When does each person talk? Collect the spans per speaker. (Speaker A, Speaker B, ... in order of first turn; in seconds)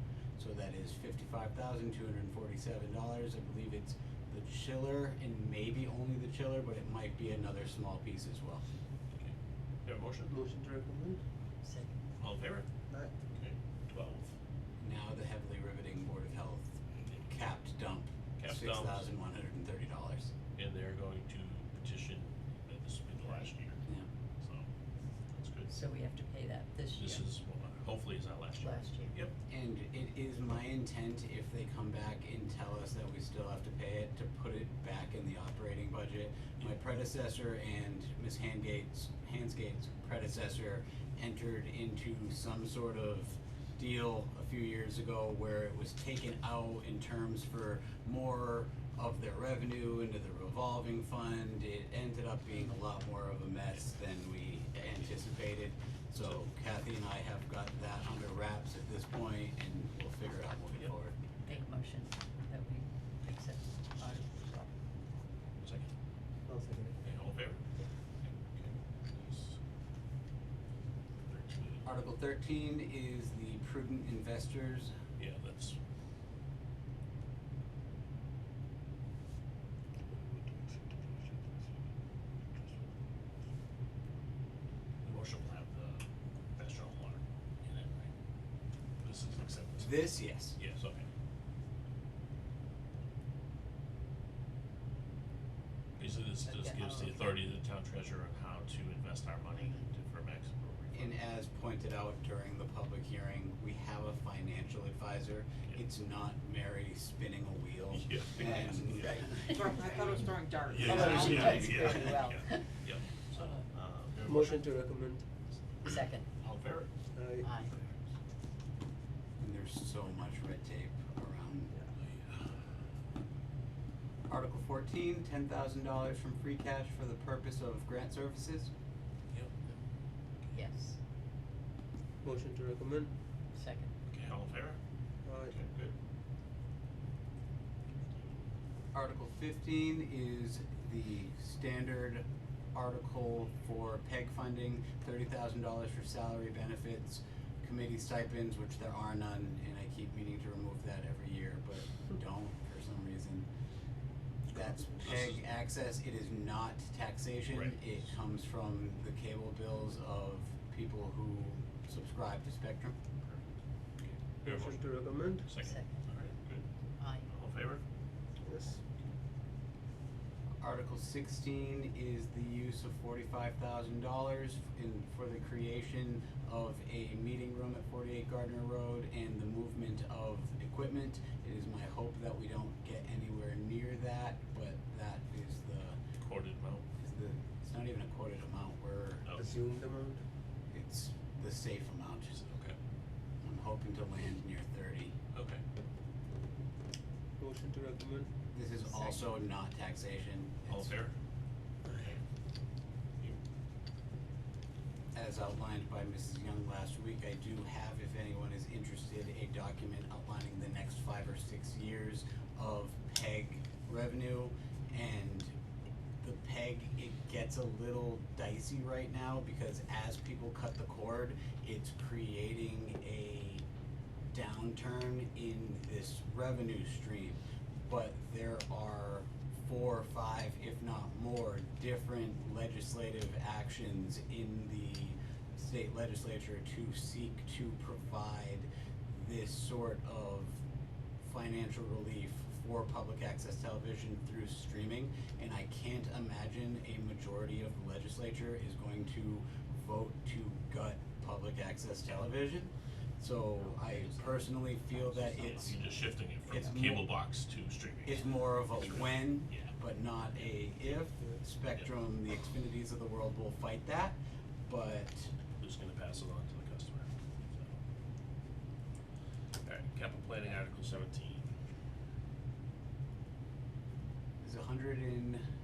Speaker A: 0.4-8.7, 14.8-20.3, 29.5-61.1, 71.8-74.9, 89.8-90.6, 100.9-110.3, 110.9-112.0, 119.4-121.7, 124.3-128.7, 138.9-153.5, 154.5-163.0, 170.6-186.0, 187.0-189.3, 190.7-192.3, 193.4-195.2, 198.5-200.9, 205.1-215.5, 216.2-223.7, 224.3-240.6, 241.2-255.8, 256.5-257.1, 258.1-265.3, 274.4-275.4
Speaker B: 9.2-10.3, 12.2-12.7, 13.3-14.3, 18.4-19.1, 20.6-23.8, 24.4-24.7, 25.3-25.7, 27.0-29.3, 65.6-65.9, 67.0-67.6, 68.2-69.6, 71.3-71.9, 75.2-75.8, 85.0-86.0, 86.6-88.1, 89.0-91.1, 96.0-101.1, 107.9-109.2, 110.7-114.7, 115.8-116.9, 121.9-122.8, 134.1-134.8, 135.4-135.9, 155.0-155.4, 157.5-157.8, 163.2-166.7, 167.2-167.8, 186.2-186.8, 192.3-192.8, 195.3-195.6, 200.7-201.1, 201.9-202.2, 255.5-259.8, 265.6-267.8, 269.6-271.5
Speaker C: 10.3-11.2, 66.5-67.0, 114.2-115.3, 117.2-117.5, 132.2-133.1, 135.2-135.6, 164.4-165.5, 168.4-168.8, 189.4-190.2, 197.4-198.3, 201.8-202.1
Speaker D: 11.6-12.0, 25.7-27.2, 28.6-29.2, 61.5-64.7, 96.4-97.4, 99.5-99.8, 109.0-109.4, 110.8-112.7, 115.8-116.3, 117.4-117.7, 130.5-131.0, 133.5-133.9, 165.6-165.9, 167.0-167.3, 198.8-199.3, 253.6-256.0
Speaker E: 109.4-111.8